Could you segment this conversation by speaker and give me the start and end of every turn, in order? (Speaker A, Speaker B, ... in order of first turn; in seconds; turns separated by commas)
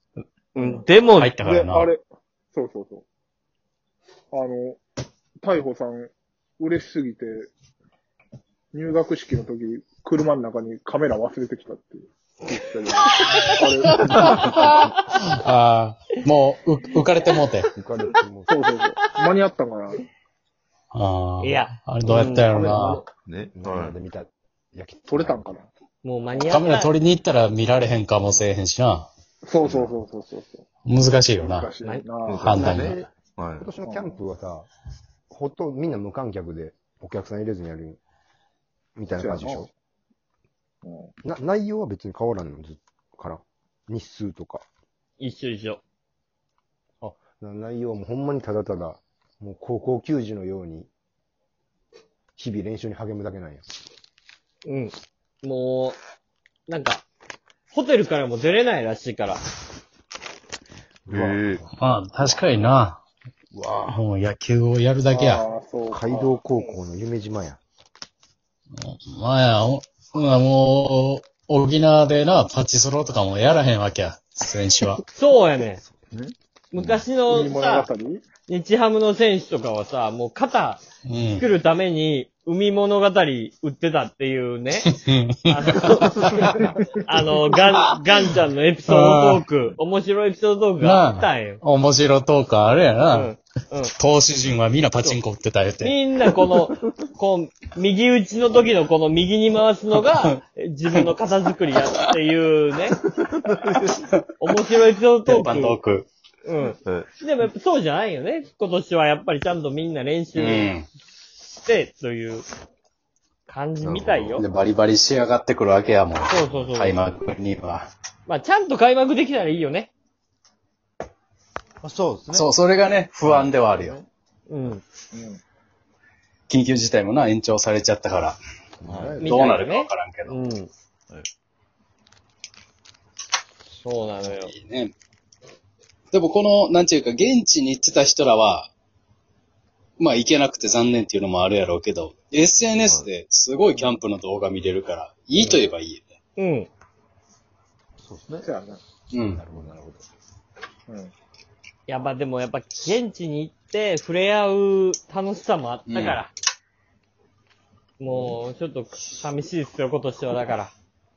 Speaker A: 0.5-1.3, Speaker B: 1.2-1.9, Speaker C: 1.4-2.0, Speaker C: 2.5-3.0, Speaker C: 4.3-4.8, Speaker C: 5.4-7.5, Speaker C: 8.7-14.6, Speaker B: 14.0-17.7, Speaker D: 17.7-18.6, Speaker C: 18.5-20.0, Speaker B: 20.9-23.0, Speaker A: 21.4-23.0, Speaker E: 23.1-24.0, Speaker D: 23.5-25.5, Speaker C: 25.1-25.7, Speaker A: 26.0-26.9, Speaker B: 26.5-29.1, Speaker C: 29.4-30.6, Speaker E: 29.6-29.9, Speaker B: 30.9-31.7, Speaker C: 31.3-32.7, Speaker E: 32.2-33.7, Speaker B: 32.4-33.0, Speaker D: 33.6-34.7, Speaker C: 33.8-34.2, Speaker D: 35.3-38.0, Speaker D: 39.0-39.7, Speaker C: 39.2-39.7, Speaker C: 40.8-41.1, Speaker D: 41.2-44.6, Speaker A: 45.2-45.8, Speaker D: 47.0-50.9, Speaker D: 52.4-53.6, Speaker A: 54.6-56.0, Speaker A: 56.7-57.0, Speaker A: 57.7-59.4, Speaker D: 61.0-61.7, Speaker E: 61.1-61.6, Speaker B: 61.7-63.0, Speaker E: 63.5-64.0, Speaker B: 63.9-65.4, Speaker C: 65.1-66.3, Speaker D: 65.9-67.6, Speaker B: 68.8-75.0, Speaker A: 75.2-75.8, Speaker E: 75.8-77.0, Speaker A: 76.7-77.9, Speaker C: 77.2-78.2, Speaker A: 78.5-80.8, Speaker B: 81.0-81.4, Speaker A: 81.3-84.9, Speaker B: 84.9-86.7, Speaker A: 85.5-91.6, Speaker C: 86.6-86.8, Speaker B: 88.9-89.4, Speaker B: 90.8-93.3, Speaker A: 93.1-93.9, Speaker B: 94.0-95.9, Speaker A: 95.8-103.0, Speaker E: 103.2-104.0, Speaker A: 104.4-105.8, Speaker B: 105.2-106.1, Speaker A: 106.4-110.7, Speaker B: 110.3-110.8, Speaker A: 111.4-112.4, Speaker A: 113.5-114.4, Speaker E: 113.8-114.4, Speaker B: 114.4-117.9, Speaker A: 116.3-117.0, Speaker A: 118.2-119.9, Speaker E: 121.8-122.5, Speaker B: 122.3-124.0, Speaker E: 123.2-124.1, Speaker A: 124.5-124.8, Speaker C: 125.1-125.4, Speaker B: 126.5-128.4, Speaker D: 128.8-129.5, Speaker E: 128.8-129.2, Speaker B: 129.2-130.4, Speaker A: 129.2-130.7, Speaker A: 133.8-134.5, Speaker B: 134.4-134.9, Speaker B: 136.1-138.7, Speaker B: 140.0-146.1, Speaker E: 142.8-143.1, Speaker A: 146.4-146.7, Speaker E: 148.0-148.5, Speaker C: 148.4-148.8, Speaker B: 149.1-149.4, Speaker D: 149.3-150.0, Speaker A: 151.9-156.3, Speaker B: 155.9-156.2, Speaker A: 158.0-160.7